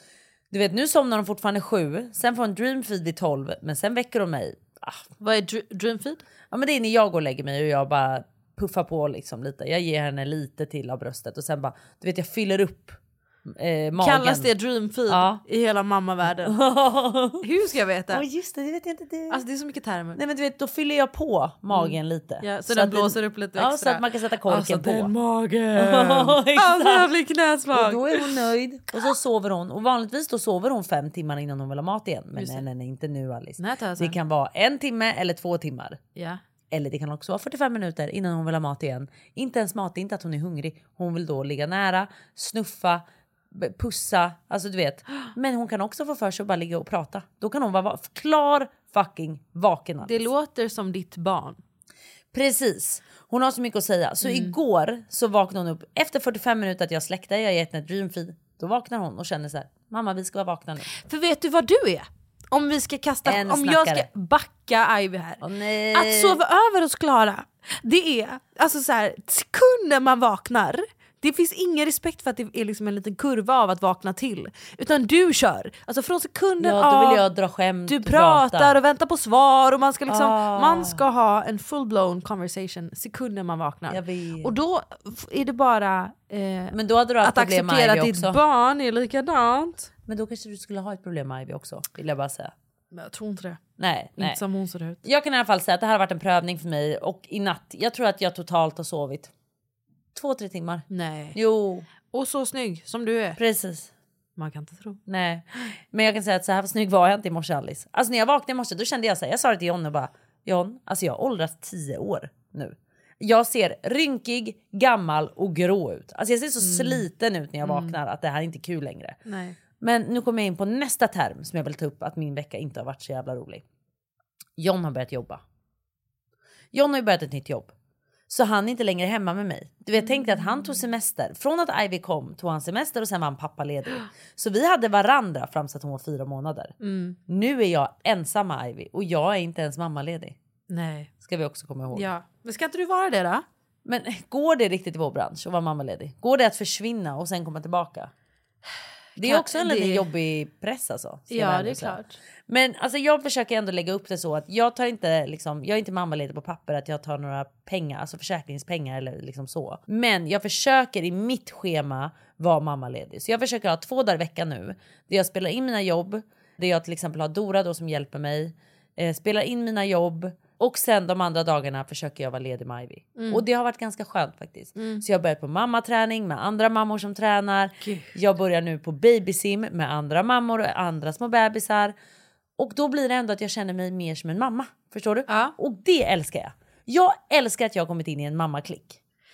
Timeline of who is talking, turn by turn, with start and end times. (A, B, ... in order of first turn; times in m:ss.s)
0:00.5-0:05.0 A
0:05.2-0:06.2 B
0:06.5-0:14.5 A
0:14.0-0:16.6 B
0:15.1-0:15.4 A
0:16.4-0:17.4 A
0:17.4-0:18.2 B
0:18.1-0:19.4 A
0:19.3-0:20.2 B
0:20.2-0:25.1 A
0:21.7-0:28.5 B
0:25.8-0:27.1 A
0:27.7-0:36.0 A
0:32.4-0:32.7 B
0:33.6-0:34.2 B
0:36.2-0:36.4 B
0:36.7-0:50.3 A
0:50.0-0:51.6 B
0:52.3-1:00.9 A
0:54.2-0:54.6 B
1:00.9-1:05.4 B
1:03.2-1:04.1 A
1:05.4-1:06.4 A
1:05.9-1:17.3 B
1:16.6-1:18.8 A
1:17.9-1:29.9 B
1:20.1-1:21.0 A
1:23.9-1:24.5 A
1:26.7-1:28.4 A
1:30.1-1:32.5 A
1:32.9-1:33.6 B
1:33.8-1:34.4 A
1:34.2-1:35.0 B
1:35.0-1:39.3 A
1:40.2-1:41.9 A
1:40.9-1:41.4 B
1:42.0-1:43.4 B
1:43.4-1:43.9 A
1:44.4-1:45.0 B
1:45.1-1:59.2 A
1:56.6-1:57.0 B
1:57.6-1:58.0 B
1:59.3-1:59.6 B
1:59.8-2:03.6 A
2:04.6-2:05.4 A
2:06.7-2:07.7 A
2:08.3-2:16.7 A
2:16.8-2:17.2 B
2:17.3-2:20.4 A
2:20.7-2:21.1 B
2:21.2-2:22.1 A
2:21.9-2:23.4 B
2:23.8-2:28.1 A
2:29.2-2:30.1 B
2:29.2-3:02.0 A
2:31.3-2:32.2 B
2:53.2-2:53.4 B
2:54.8-2:55.0 B
2:57.8-2:58.1 B
3:02.6-3:09.0 A
3:05.3-3:05.6 B